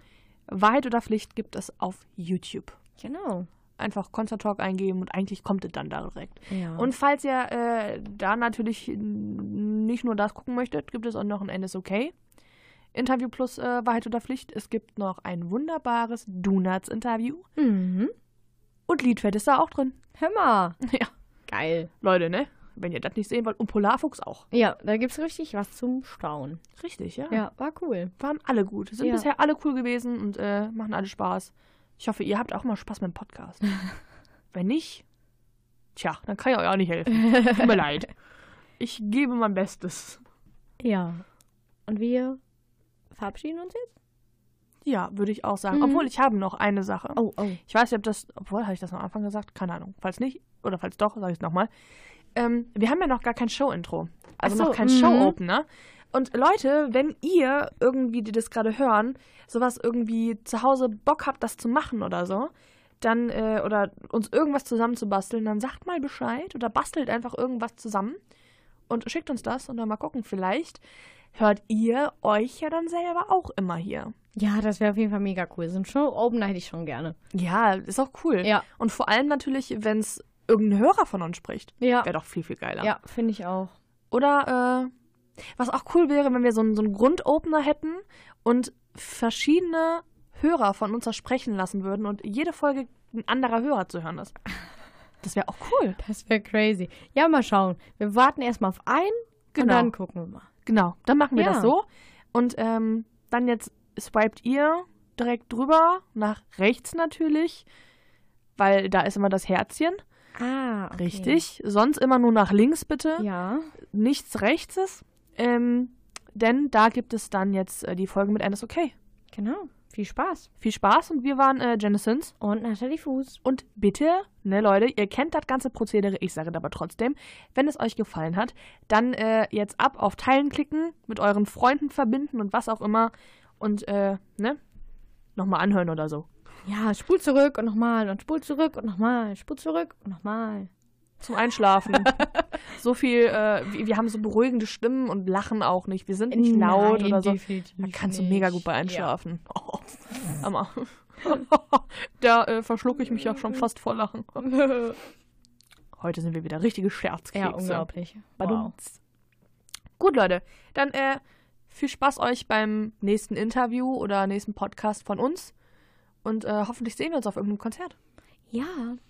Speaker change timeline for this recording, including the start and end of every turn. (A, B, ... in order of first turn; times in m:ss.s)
0:00.5-0:02.8 A
0:03.0-0:03.5 B
0:03.8-0:12.1 A
0:06.5-0:06.9 B
0:12.9-0:17.5 A
0:17.6-0:18.1 B
0:18.9-0:20.0 A
0:20.2-0:20.8 B
0:20.8-0:21.1 A
0:21.5-0:21.9 B
0:22.0-0:24.4 A
0:24.5-0:26.6 B
0:26.8-0:27.4 A
0:27.3-0:28.1 B
0:28.2-0:33.6 A
0:34.5-0:35.0 A
0:36.0-0:38.1 A
0:37.3-0:37.6 B
0:38.8-0:40.2 A
0:40.8-0:41.2 B
0:41.9-0:42.4 B
0:43.1-0:43.9 B
0:44.8-0:51.7 A
0:45.7-0:46.1 B
0:47.2-0:47.6 B
0:52.3-1:08.2 A
0:54.4-0:55.4 B
1:08.9-1:10.8 A
1:11.3-1:14.1 A
1:14.4-1:17.2 B
1:17.3-1:22.9 A
1:21.8-1:22.1 B
1:22.8-1:23.7 B
1:24.1-1:24.9 A
1:25.6-1:34.4 A
1:35.2-1:36.0 A
1:36.0-1:40.5 B
1:39.5-1:39.9 A
1:40.6-1:47.7 A
1:41.4-1:41.7 B
1:48.6-1:50.0 A
1:50.4-1:51.4 B
1:51.0-1:53.2 A
1:53.2-1:53.7 B
1:53.9-1:58.9 A
1:59.3-2:00.5 B
2:00.6-2:02.3 A
2:02.4-2:03.4 B
2:03.4-2:14.6 A
2:15.4-2:16.3 A
2:16.6-2:20.7 B
2:21.2-2:34.8 A
2:26.3-2:29.1 B
2:34.6-2:34.9 B
2:36.0-2:37.9 A
2:37.3-2:38.7 B
2:38.4-2:39.0 A
2:40.0-2:45.5 A
2:46.2-2:47.9 A
2:48.5-2:49.0 B